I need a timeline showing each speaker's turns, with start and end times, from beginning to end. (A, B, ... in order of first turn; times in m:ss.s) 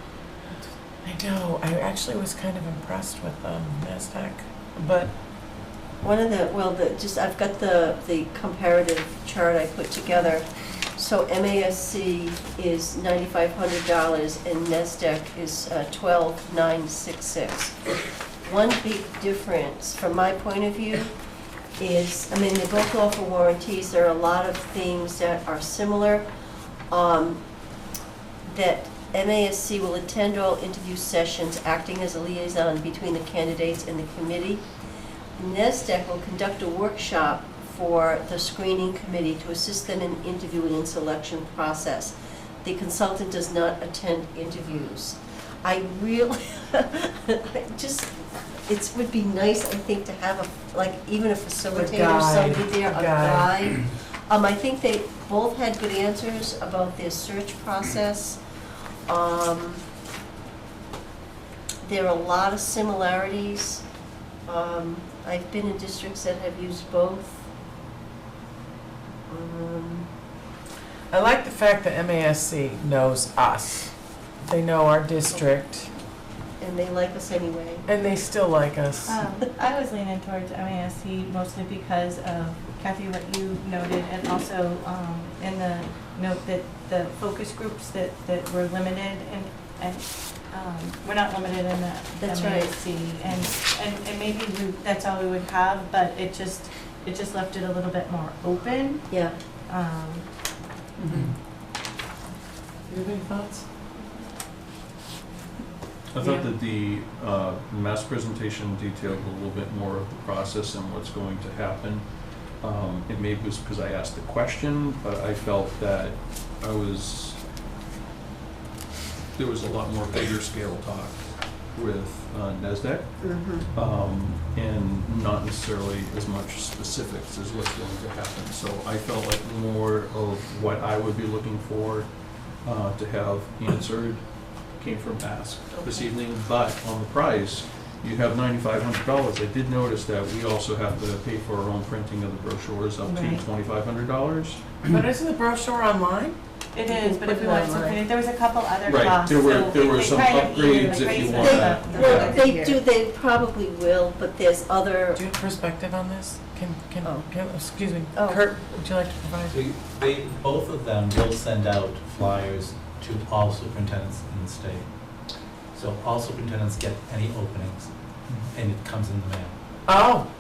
0:01.0-0:05.1 A
0:06.0-0:17.8 B
0:18.4-0:21.1 B
0:21.8-0:26.2 B
0:26.9-0:27.4 B
0:28.4-0:34.6 B
0:35.4-0:58.4 B
0:51.7-0:53.5 A
0:59.1-0:59.8 B
1:01.8-1:03.8 B
1:04.4-1:07.4 B
1:09.3-1:10.1 B
1:11.1-1:15.9 A
1:16.6-1:17.8 B
1:17.8-1:19.2 A
1:19.1-1:39.2 C
1:32.2-1:32.7 B
1:39.1-1:39.3 B
1:39.7-1:40.3 C
1:41.0-1:41.3 A
1:42.9-1:43.6 A
1:46.1-1:52.1 D
1:46.2-1:46.4 A
1:52.6-1:57.4 D
1:59.3-2:24.6 D
2:03.2-2:03.7 B
2:23.0-2:23.4 C
2:24.8-2:26.4 A
2:26.7-2:32.8 C
2:27.1-2:28.0 A
2:28.8-2:32.4 D
2:31.4-2:35.2 B
2:35.1-2:39.6 A
2:37.0-2:37.3 B
2:38.1-2:38.4 B
2:39.5-2:44.9 E
2:45.7-2:49.5 E
2:49.9-2:50.3 A